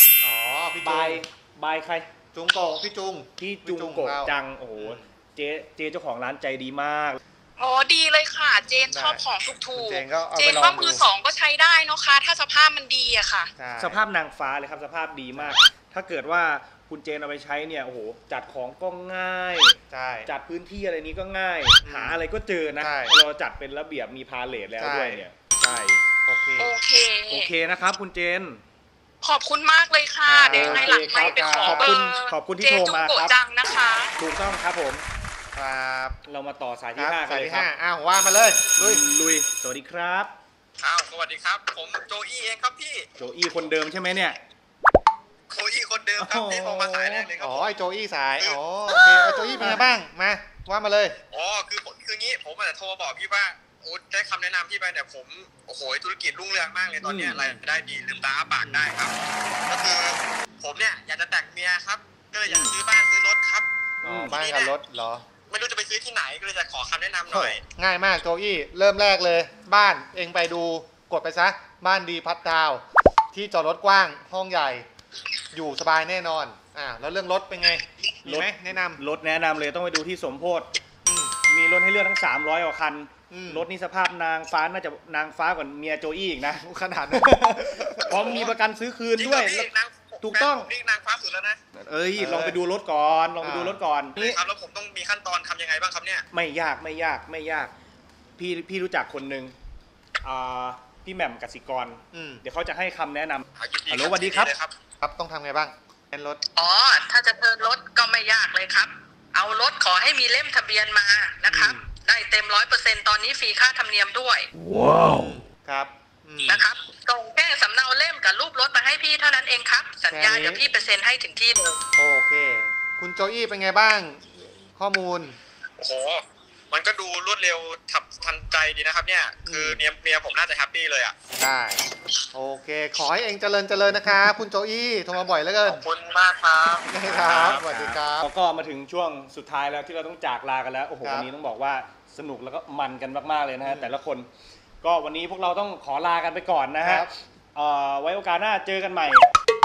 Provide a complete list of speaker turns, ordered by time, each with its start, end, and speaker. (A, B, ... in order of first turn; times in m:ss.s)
0:00.2-0:01.2 A
0:00.8-0:02.1 B
0:02.3-0:05.1 A
0:03.4-0:07.2 B
0:07.6-0:13.5 C
0:08.9-0:11.0 A
0:13.6-0:14.0 A
0:13.8-0:26.0 B
0:19.9-0:20.3 A
0:21.8-0:22.2 A
0:22.8-0:23.1 A
0:24.8-0:25.2 A
0:26.2-0:26.7 A
0:26.6-0:27.5 C
0:27.3-0:28.6 B
0:29.2-0:34.1 C
0:30.2-0:32.0 A
0:30.5-0:33.3 B
0:34.2-0:35.0 B
0:35.5-0:36.2 A
0:36.2-0:37.7 B
0:37.0-0:39.0 A
0:38.8-0:40.3 B
0:40.8-0:43.1 D
0:43.2-0:44.4 B
0:45.5-0:47.8 D
0:46.2-0:47.3 B
0:47.4-0:51.2 A
0:49.6-0:49.8 B
0:51.3-0:59.1 D
0:57.0-0:57.6 B
0:58.6-0:58.9 A
0:59.7-1:03.6 D
1:02.5-1:02.8 B
1:04.0-1:04.4 B
1:04.0-1:05.2 A
1:04.3-1:04.7 D
1:05.5-1:07.6 D
1:07.3-1:14.8 A
1:15.5-1:19.0 A
1:18.2-1:20.7 B
1:21.0-1:21.3 A
1:21.5-1:29.7 B
1:23.3-1:23.7 A
1:26.4-1:28.4 A
1:28.1-1:28.5 D
1:29.2-1:31.6 D
1:30.2-1:30.7 B
1:31.8-1:34.4 B
1:32.1-1:32.6 A
1:33.4-1:33.8 A
1:34.2-1:36.2 D
1:36.3-1:37.7 B
1:38.4-1:39.5 B
1:40.2-1:44.5 B
1:42.1-1:42.4 A
1:43.6-1:44.7 D
1:45.0-1:46.4 A
1:46.6-1:54.5 E
1:49.4-1:50.1 C
1:51.5-1:51.9 A
1:55.0-1:56.7 A
1:56.5-2:01.8 E
1:57.5-1:58.8 C
1:59.6-2:00.0 C
2:00.1-2:00.6 A
2:00.7-2:01.2 C
2:02.0-2:05.4 A
2:05.8-2:11.1 D
2:09.4-2:09.8 A
2:11.4-2:11.8 A
2:12.3-2:15.8 A
2:15.6-2:18.0 D
2:16.8-2:18.3 A
2:18.2-2:24.3 B
2:21.0-2:21.3 A
2:23.6-2:23.9 A
2:24.8-2:29.3 B
2:26.8-2:27.1 A